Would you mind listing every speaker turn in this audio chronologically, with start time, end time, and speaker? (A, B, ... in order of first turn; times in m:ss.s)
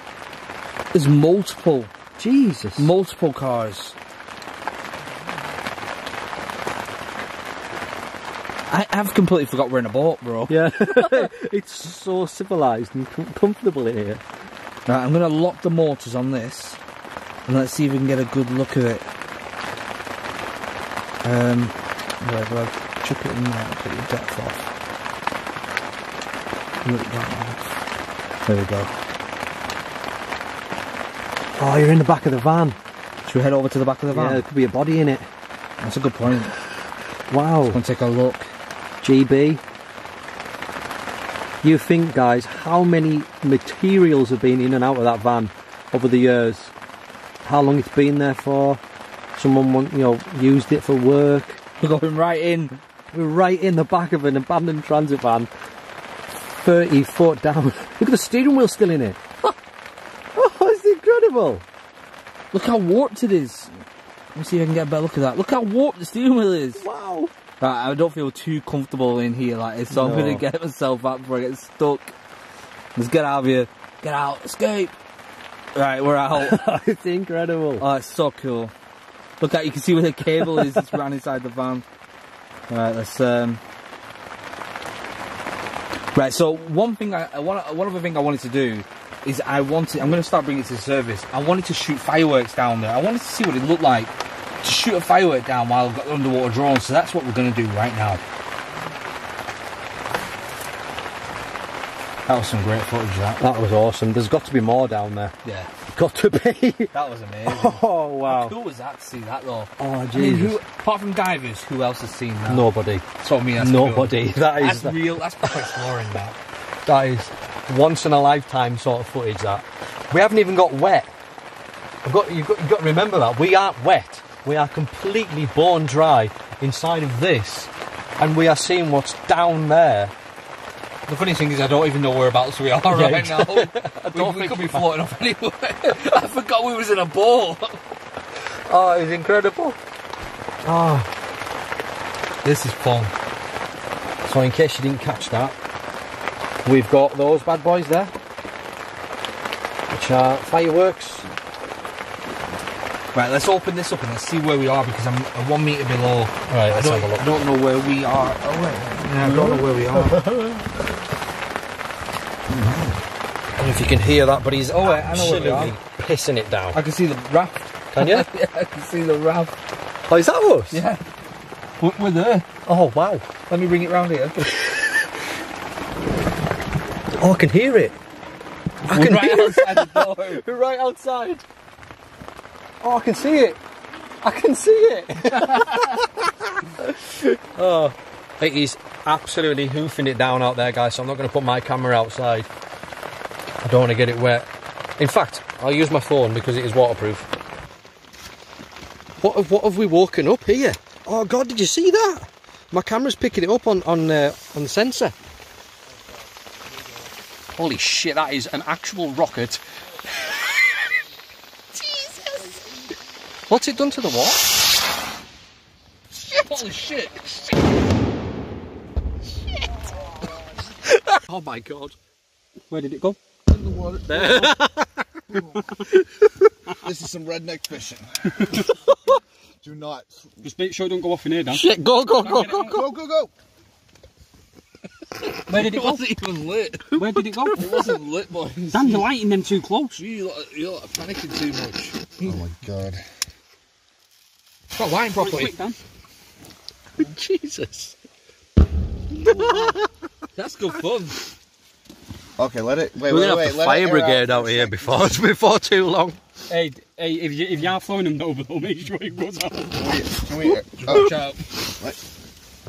0:00.9-0:01.9 A
0:02.2-0:02.9 B
0:02.8-0:04.0 A
0:08.7-0:11.3 A
0:10.5-0:14.2 B
0:14.8-0:16.8 A
0:17.4-0:19.0 A
0:21.2-0:24.7 A
0:26.8-0:27.8 A
0:28.4-0:29.0 A
0:31.6-0:32.8 B
0:33.2-0:34.4 A
0:34.1-0:35.3 B
0:35.8-0:36.6 A
0:37.3-0:37.8 B
0:37.7-0:38.5 A
0:39.0-0:39.6 B
0:41.6-0:46.7 B
0:47.4-0:48.8 B
0:49.4-0:51.6 B
0:51.8-0:52.8 A
0:53.1-0:55.5 B
0:56.3-0:59.5 B
1:00.3-1:01.6 B
1:02.5-1:03.7 A
1:04.3-1:06.8 A
1:06.8-1:07.3 B
1:07.6-1:12.1 A
1:09.9-1:10.4 B
1:12.9-1:14.9 A
1:15.7-1:16.7 A
1:16.3-1:17.8 B
1:17.8-1:18.7 A
1:19.4-1:21.8 A
1:22.7-1:23.6 A
1:26.1-1:38.2 A
1:42.2-1:43.4 A
1:43.4-1:45.4 B
1:45.4-1:45.7 A
1:45.9-1:46.9 B
1:46.9-1:52.7 A
1:47.4-1:48.6 B
1:49.8-1:50.6 B
1:52.5-1:55.6 B
1:53.2-1:56.4 A
1:56.8-2:01.1 B
2:02.0-2:10.1 B
2:11.1-2:17.8 A
2:12.9-2:14.9 B
2:18.7-2:19.8 B
2:20.6-2:21.1 B
2:22.4-2:23.1 A
2:24.2-2:25.6 B
2:26.6-2:28.1 B
2:29.9-2:31.3 B
2:33.1-2:40.3 A
2:36.5-2:37.3 B
2:40.0-2:40.6 B
2:43.6-2:46.8 B
2:44.7-2:45.8 A
2:46.7-2:49.5 A
2:47.9-2:48.3 B
2:50.1-2:50.8 B
2:50.7-2:51.0 A
2:51.8-2:52.5 A
2:52.6-2:53.3 B
2:53.5-2:54.7 A
2:57.2-2:58.0 B
2:58.8-3:00.4 A
2:58.9-3:01.4 B
3:02.8-3:03.6 B
3:04.2-3:06.1 B
3:06.8-3:12.5 B
3:13.6-3:17.3 B
3:19.2-3:25.1 B
3:27.6-3:29.6 B
3:30.2-3:30.8 B
3:33.5-3:34.6 B
3:36.2-3:37.6 A
3:40.9-3:42.0 B
3:42.7-3:43.2 C
3:43.5-3:44.5 D
3:44.0-3:45.0 B
3:45.3-3:45.7 D
3:46.8-3:48.5 D
3:49.6-3:50.3 D
3:50.4-3:51.7 C
3:51.5-3:52.8 B
3:52.2-3:52.8 C
3:52.3-3:53.3 D
3:55.3-3:59.1 A
3:55.5-3:56.0 C
3:56.9-3:57.9 C
3:58.7-4:00.0 C
4:00.0-4:02.4 A
4:02.2-4:03.0 D
4:04.7-4:05.6 A
4:05.1-4:05.8 C
4:07.0-4:07.9 B
4:09.2-4:09.8 B
4:09.2-4:09.8 A
4:10.3-4:11.2 A
4:12.4-4:15.2 D
4:13.1-4:16.2 B
4:16.5-4:20.0 C
4:19.8-4:21.1 D
4:20.8-4:21.4 A